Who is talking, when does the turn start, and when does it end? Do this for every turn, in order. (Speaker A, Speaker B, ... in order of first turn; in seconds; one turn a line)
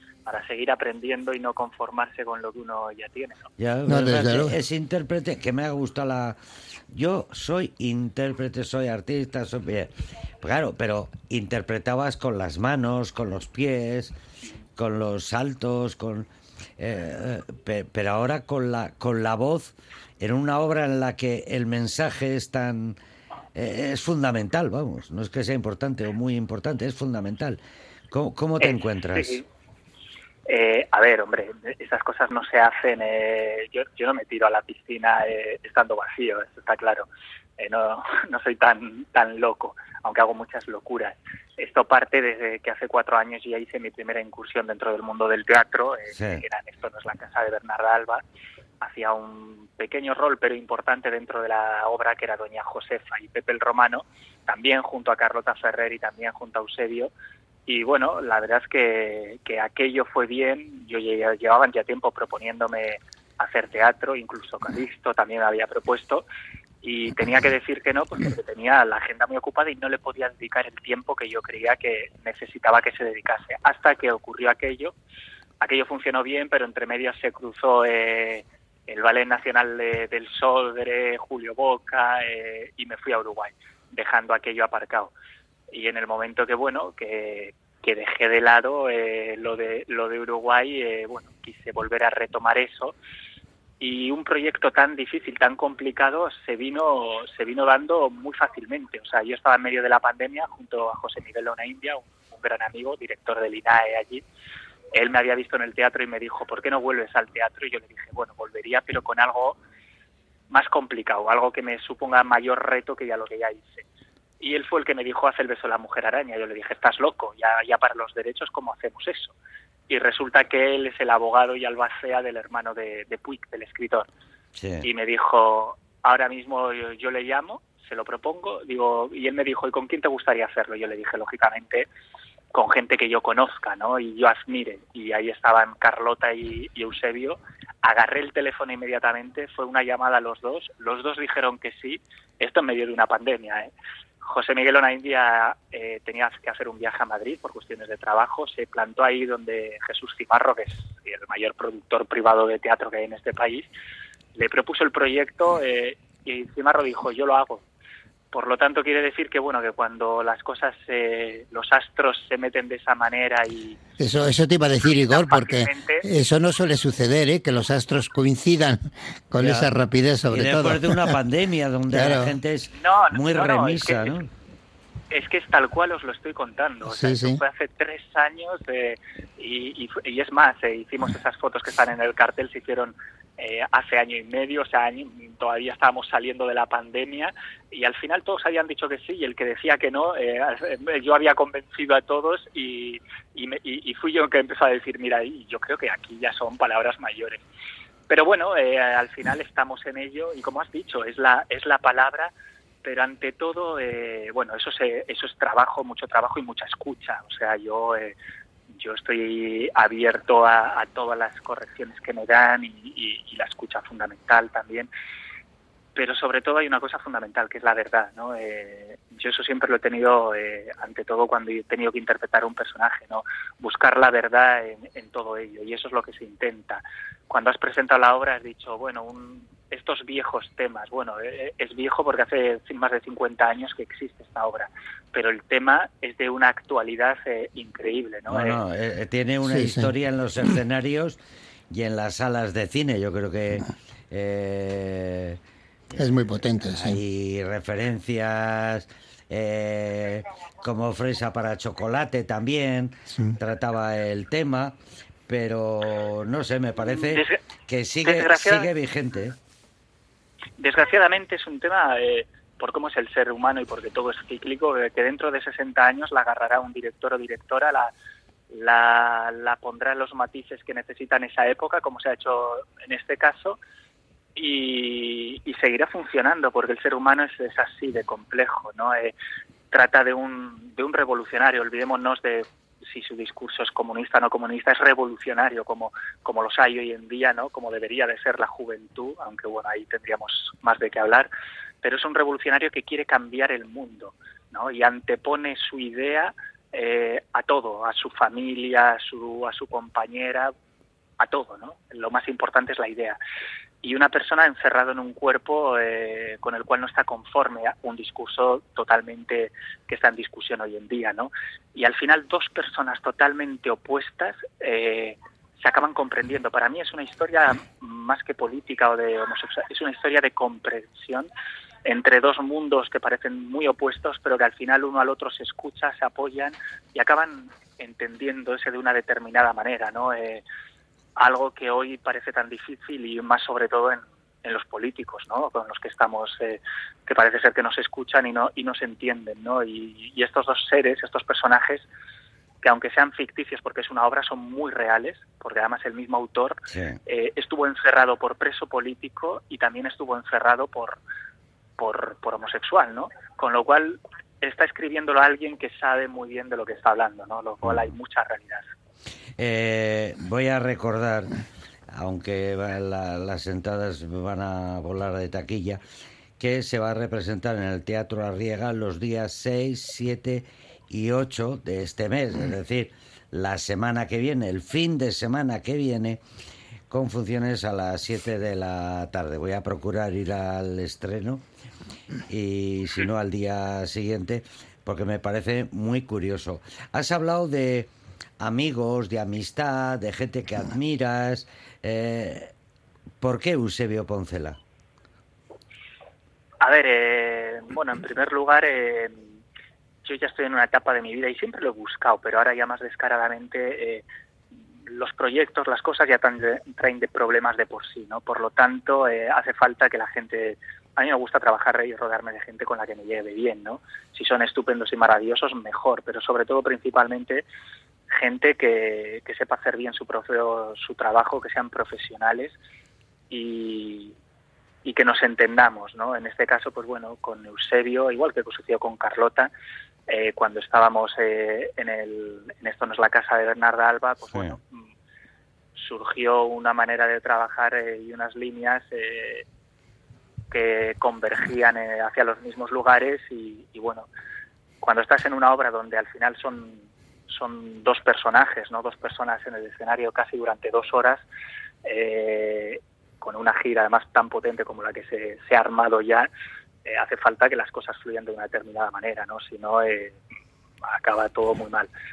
Speaker A: 0.2-3.4
Speaker B: 3.6-6.4
Speaker C: 3.9-4.5
Speaker B: 6.9-9.9
Speaker B: 10.4-14.1
Speaker B: 14.8-16.3
Speaker B: 16.8-23.0
Speaker B: 23.5-27.6
Speaker B: 28.1-29.4
Speaker A: 28.6-29.4
Speaker A: 30.5-37.0
Speaker A: 37.6-48.2
Speaker B: 46.1-46.4
Speaker A: 48.8-57.1
Speaker A: 57.7-66.2
Speaker A: 66.8-74.9
Speaker A: 75.6-85.1
Speaker A: 85.7-93.0
Speaker A: 93.8-104.2
Speaker A: 104.9-109.6
Speaker A: 110.5-113.8
Speaker A: 114.4-119.3
Speaker A: 119.9-124.1
Speaker B: 124.6-124.9
Speaker A: 124.8-131.9
Speaker A: 132.5-143.7
Speaker A: 144.2-153.7
Speaker A: 154.3-157.6
Speaker A: 158.3-163.8
Speaker C: 164.0-171.2
Speaker A: 165.1-166.0
Speaker B: 169.4-169.7
Speaker B: 170.3-174.3
Speaker C: 171.9-172.4
Speaker A: 172.7-174.2
Speaker A: 175.1-197.4
Speaker C: 176.8-177.4
Speaker A: 198.1-202.3
Speaker A: 202.8-208.2
Speaker A: 208.8-214.9
Speaker A: 215.9-238.6
Speaker B: 238.3-241.2
Speaker C: 239.4-239.9
Speaker B: 241.7-245.4
Speaker C: 245.9-247.0
Speaker B: 246.6-254.8
Speaker C: 253.1-253.4
Speaker B: 255.3-259.4
Speaker A: 257.0-257.4
Speaker A: 258.0-258.7
Speaker A: 260.6-267.9
Speaker A: 268.5-273.6
Speaker A: 274.3-279.1
Speaker A: 279.7-291.3
Speaker A: 291.8-300.5
Speaker A: 301.2-303.2
Speaker A: 303.8-321.3
Speaker A: 321.8-330.4
Speaker A: 331.1-341.9
Speaker A: 342.6-351.0
Speaker B: 346.7-347.0
Speaker A: 351.8-358.6
Speaker B: 359.4-361.3
Speaker B: 361.9-365.8
Speaker B: 366.4-376.2
Speaker B: 376.9-381.4
Speaker B: 382.3-392.5
Speaker B: 393.2-394.6
Speaker A: 396.6-399.4
Speaker A: 400.0-404.0
Speaker A: 404.9-417.4
Speaker A: 418.1-422.6
Speaker A: 423.3-424.1
Speaker A: 424.8-429.5
Speaker A: 430.1-434.7
Speaker A: 435.8-439.4
Speaker A: 440.5-444.1
Speaker A: 444.8-451.2
Speaker A: 451.8-456.3
Speaker A: 456.8-460.2
Speaker A: 460.9-461.9